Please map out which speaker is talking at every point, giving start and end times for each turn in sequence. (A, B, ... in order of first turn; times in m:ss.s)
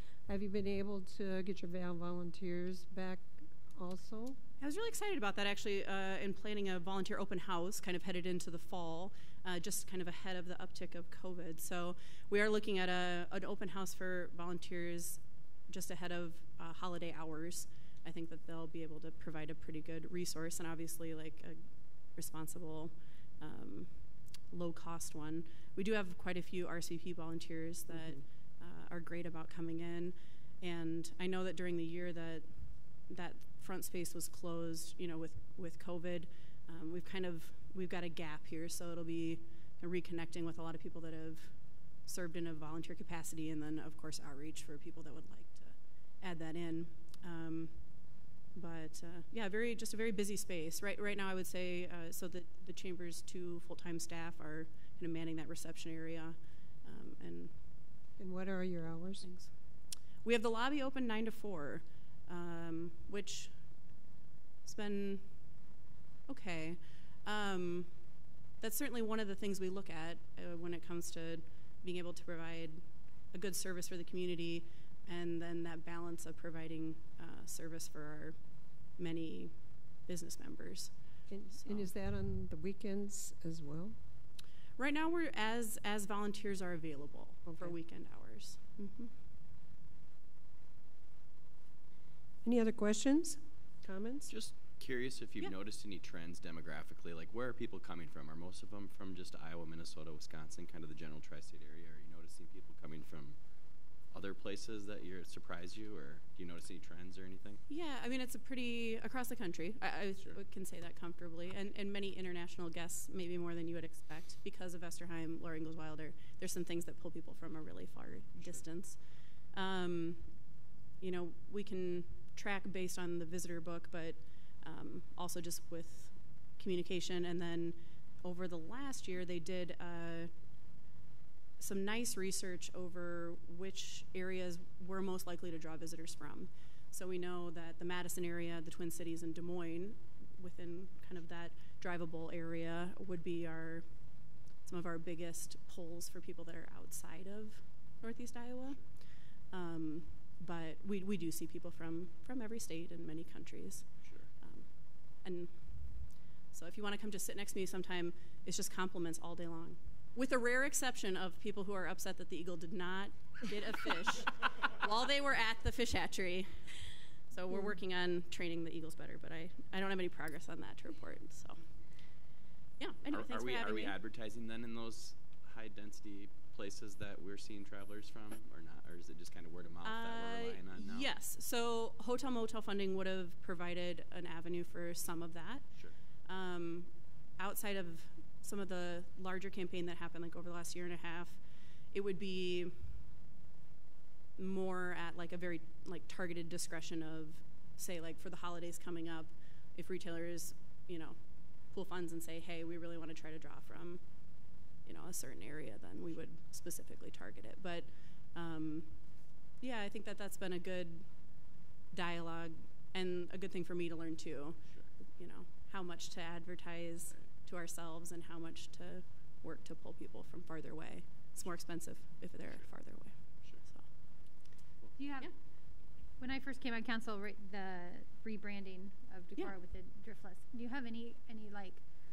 0:00.3-0:04.4 A
0:04.6-0:57.5 B
0:58.2-0:59.3 A
0:59.2-0:59.5 B
1:00.2-1:03.6 B
1:04.6-1:05.6 B
1:06.3-1:21.9 B
1:21.3-1:24.0 A
1:24.8-1:29.1 B
1:27.4-1:27.7 A
1:32.4-1:34.3 A
1:34.3-1:43.4 C
1:44.1-1:47.6 C
1:47.7-2:10.3 B
1:58.4-1:58.6 C
2:11.6-2:51.6 B
2:28.6-2:28.9 C
2:34.0-2:34.3 C
2:52.8-2:54.0 B
2:53.0-3:01.1 C
2:59.8-3:13.0 B
3:14.4-3:43.9 B
3:37.1-3:37.3 C
3:42.4-3:43.6 C
3:45.0-3:45.3 D
3:46.2-3:51.8 D